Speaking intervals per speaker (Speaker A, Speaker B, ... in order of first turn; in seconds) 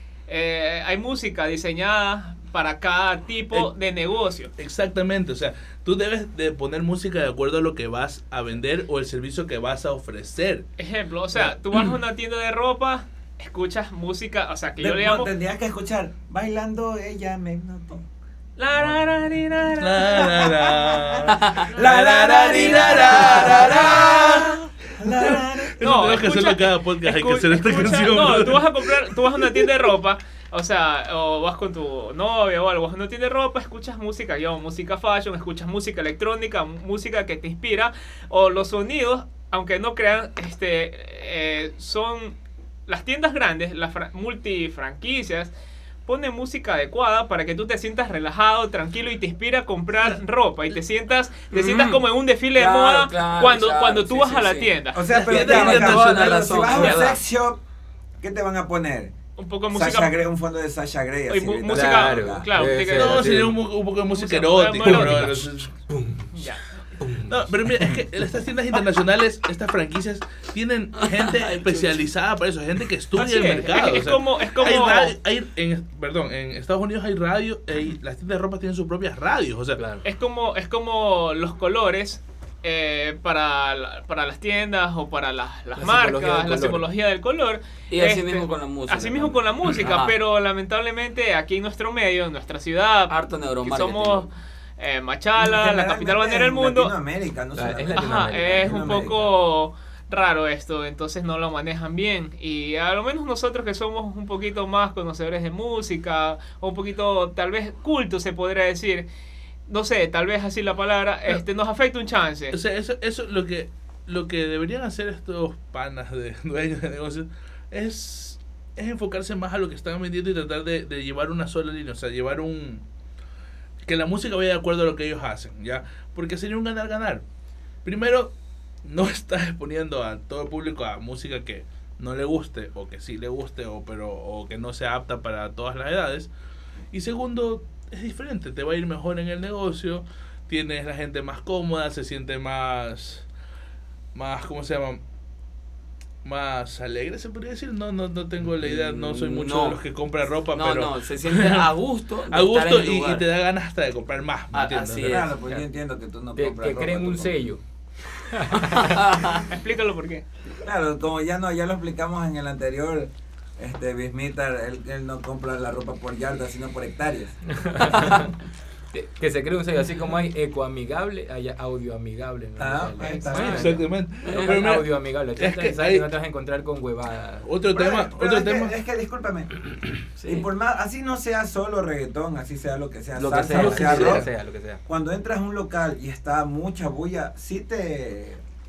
Speaker A: 0.3-4.5, 10.8-15.3, 18.6-20.5, 21.7-24.1, 25.8-42.4, 42.9-45.5, 46.1-55.3, 59.4-60.2, 61.3-63.4, 64.1-65.3, 66.3-66.8, 73.2-75.2, 80.0-96.9, 97.9-109.1, 109.7-112.6, 159.4-160.3
Speaker B: 4.6-10.7, 19.8-24.6, 25.2-29.6, 55.1-57.0, 62.9-65.7, 67.3-79.8, 112.5-122.8, 123.8-127.2, 127.8-136.3, 136.9-143.3, 144.1-145.0, 146.2-151.7, 152.3-155.3, 173.3-176.1, 177.4-178.7, 183.6-184.3
Speaker C: 14.8-18.1, 18.7-25.8, 54.9-57.6, 58.2-59.1, 59.7-62.7, 95.4-99.3, 155.0-157.4, 160.6-167.8, 172.6-173.8, 177.7-179.6, 180.2-184.3, 184.9-188.4
Speaker D: 51.5-52.0, 52.5-54.7, 55.3-57.2, 71.0-71.9, 87.9-90.2, 93.1-94.3, 148.6-149.8, 150.5-153.3, 154.5-155.3, 158.5-159.5, 174.2-174.6, 180.2-180.5
Speaker E: 61.7-63.6, 64.8-66.4, 67.0-68.0, 79.8-80.0, 85.8-86.8, 97.6-99.1, 156.4-157.6, 158.3-158.9, 167.5-168.3, 168.9-177.5, 183.2-184.8